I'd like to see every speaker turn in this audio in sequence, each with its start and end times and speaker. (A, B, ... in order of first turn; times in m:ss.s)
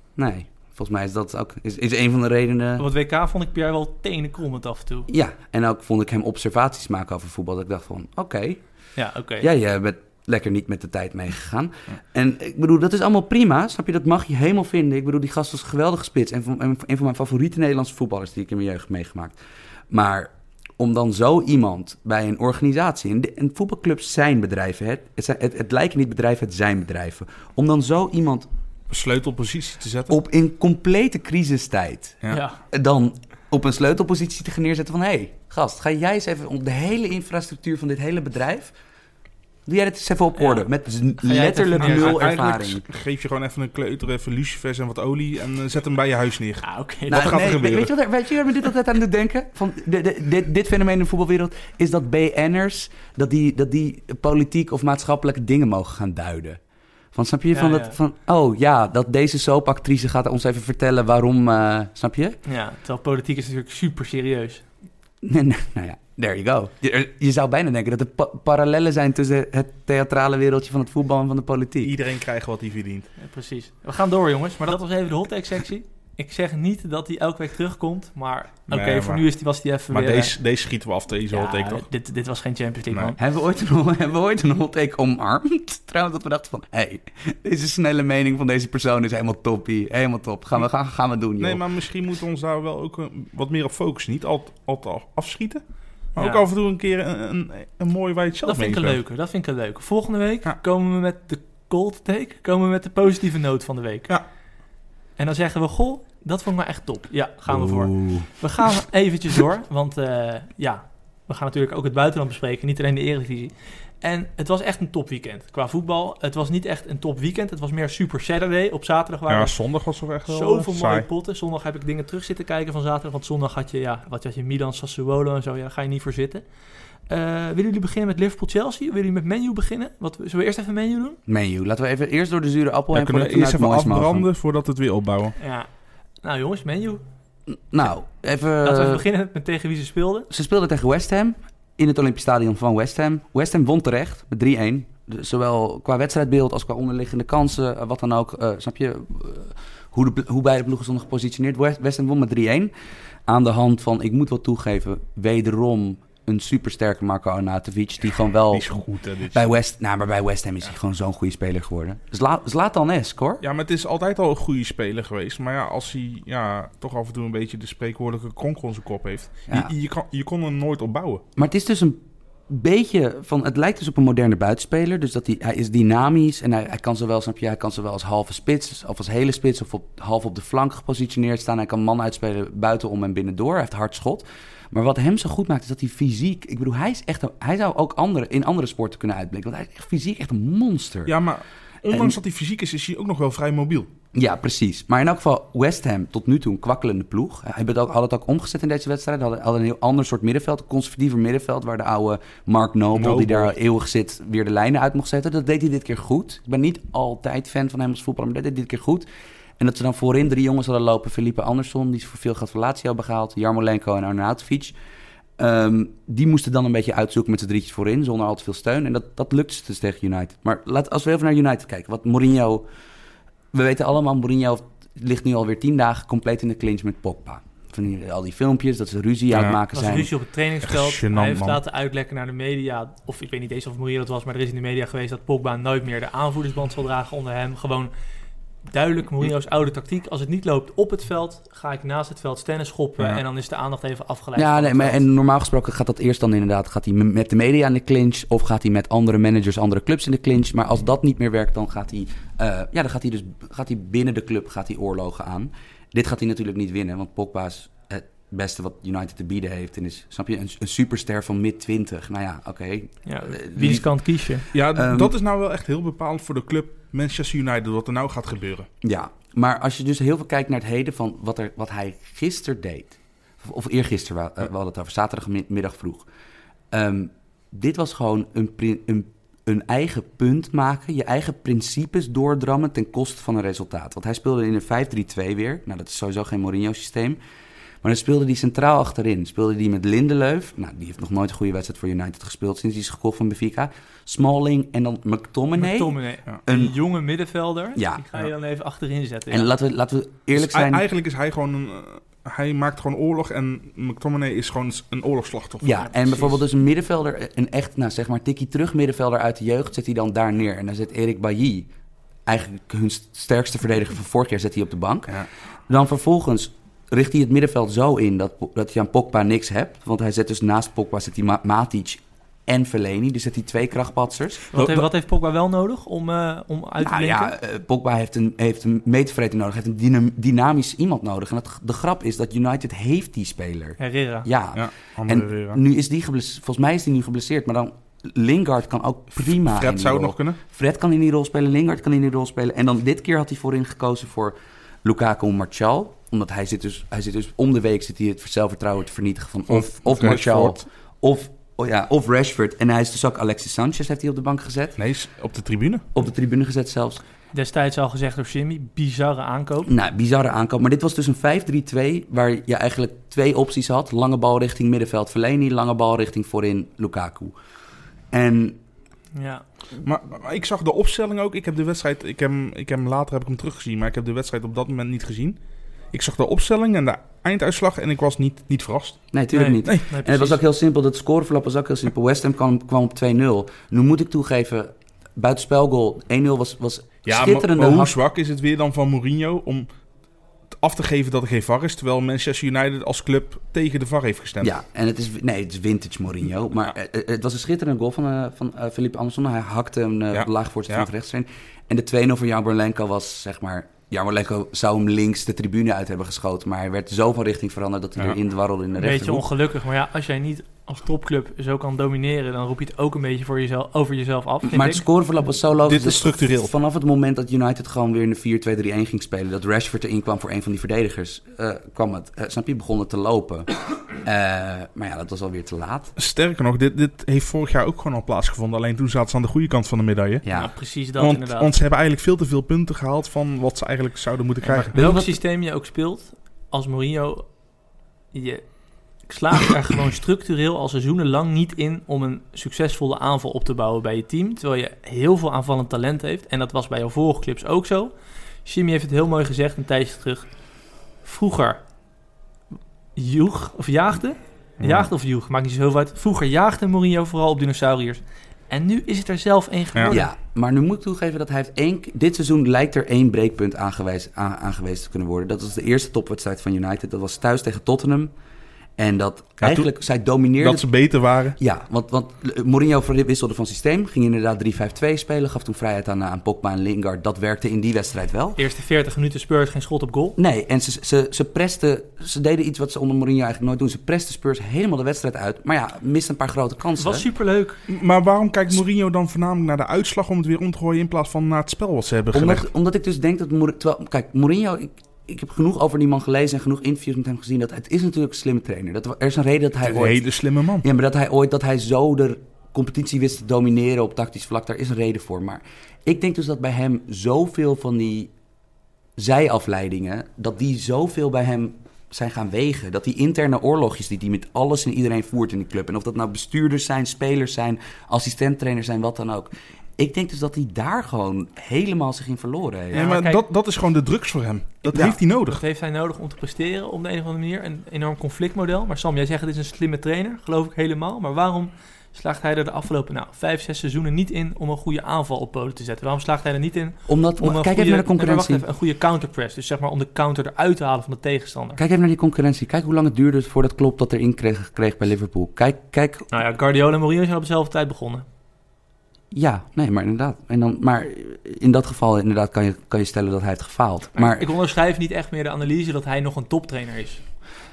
0:00.2-0:02.8 A
0:02.8-0:05.1 B
0:05.1-0:08.6 A
0:09.0-0:09.5 B
0:09.4-0:19.4 A
0:19.9-0:28.5 A
0:28.9-0:30.2 C
0:30.1-0:38.7 A
0:32.3-0:32.6 B
0:39.6-0:42.8 A
0:40.4-0:40.6 B
0:41.2-0:42.4 B
0:41.8-0:47.9 C
0:46.6-0:47.5 B
0:47.1-0:56.6 A
0:57.1-1:02.4 A
0:57.5-0:58.0 B
1:02.4-1:04.6 B
1:05.2-1:12.0 A
1:11.8-1:13.1 C
1:13.2-1:20.3 B
1:18.7-1:19.2 C
1:19.9-1:21.8 C
1:21.3-1:23.2 B
1:23.2-1:31.6 A
1:31.4-1:35.6 C
1:36.1-1:39.0 C
1:36.2-1:36.4 B
1:38.4-1:44.1 B
1:45.2-1:59.5 B
1:47.5-1:48.3 A
1:59.3-2:01.0 C
2:00.2-2:06.4 B
2:07.1-2:11.2 B
2:11.3-2:14.3 A
2:12.9-2:15.4 C
2:15.4-2:15.7 B
2:16.2-2:17.0 B
2:17.5-2:19.0 A
2:18.6-2:20.3 B
2:20.3-2:32.7 A
2:33.3-2:38.7 A
2:38.5-2:39.5 C
2:39.3-2:43.4 A
2:43.4-2:51.2 C
2:51.4-3:11.1 A
3:11.0-3:13.9 C
3:11.9-3:12.2 A
3:14.1-3:29.1 A
3:22.9-3:23.5 C
3:29.6-3:34.7 A
3:35.4-3:42.6 A
3:43.5-3:50.1 A
3:49.3-3:49.6 C
3:49.7-3:57.9 B
3:50.6-3:51.6 C
3:58.7-4:05.0 B
4:04.4-4:23.9 A
4:23.0-4:24.5 B
4:24.5-4:28.7 C
4:24.7-4:25.1 A
4:28.8-4:36.1 A
4:36.7-4:47.2 A
4:47.8-4:56.8 A
4:55.6-4:59.5 B
4:57.8-4:58.0 A
4:59.3-5:00.8 A
5:00.3-5:05.8 C
5:05.6-5:11.7 A
5:05.9-5:06.4 B
5:12.3-5:24.5 A
5:24.5-5:27.3 B
5:24.5-5:24.8 C
5:26.8-5:54.8 A
5:33.8-5:34.3 B
5:34.5-5:35.6 C
5:39.2-5:40.4 C
5:49.5-5:50.6 C
5:54.8-5:55.8 C
5:55.9-5:57.0 A
5:57.3-5:59.7 B
5:59.6-6:07.3 A
6:08.1-6:08.6 A
6:09.1-6:09.4 B
6:09.8-6:15.4 C
6:15.9-6:19.0 C
6:19.1-6:28.0 A
6:19.3-6:20.4 B
6:27.0-6:29.7 C
6:30.5-6:34.5 C
6:34.4-6:49.3 A
6:40.1-6:40.9 C
6:48.8-6:54.8 B
6:54.5-7:03.5 A
6:55.6-6:56.5 C
7:04.0-7:05.9 A
7:06.0-7:10.2 C
7:10.2-7:10.5 A
7:10.3-7:11.5 B
7:11.0-7:14.8 C
7:14.4-7:17.2 B
7:14.7-7:15.1 A
7:18.1-7:18.4 B
7:19.1-7:27.9 B
7:28.4-7:30.2 B
7:31.0-7:31.6 B
7:33.0-7:40.1 B
7:34.6-7:34.9 C
7:39.9-7:48.1 A
7:48.8-7:50.7 A
7:49.4-7:49.7 C
7:50.4-7:51.4 C
7:51.4-7:58.4 A
7:58.4-8:00.2 B
8:00.2-8:07.1 A
8:06.8-8:07.6 B
8:07.7-8:12.5 C
8:12.1-8:20.0 A
8:19.6-8:20.6 C
8:20.6-8:28.1 A
8:29.0-8:42.9 A
8:42.7-8:43.2 B
8:42.7-8:45.4 C
8:44.8-9:01.6 B
8:56.9-8:58.4 A
9:01.6-9:06.1 A
9:06.1-9:08.0 B
9:09.1-9:14.2 A
9:14.0-9:17.0 B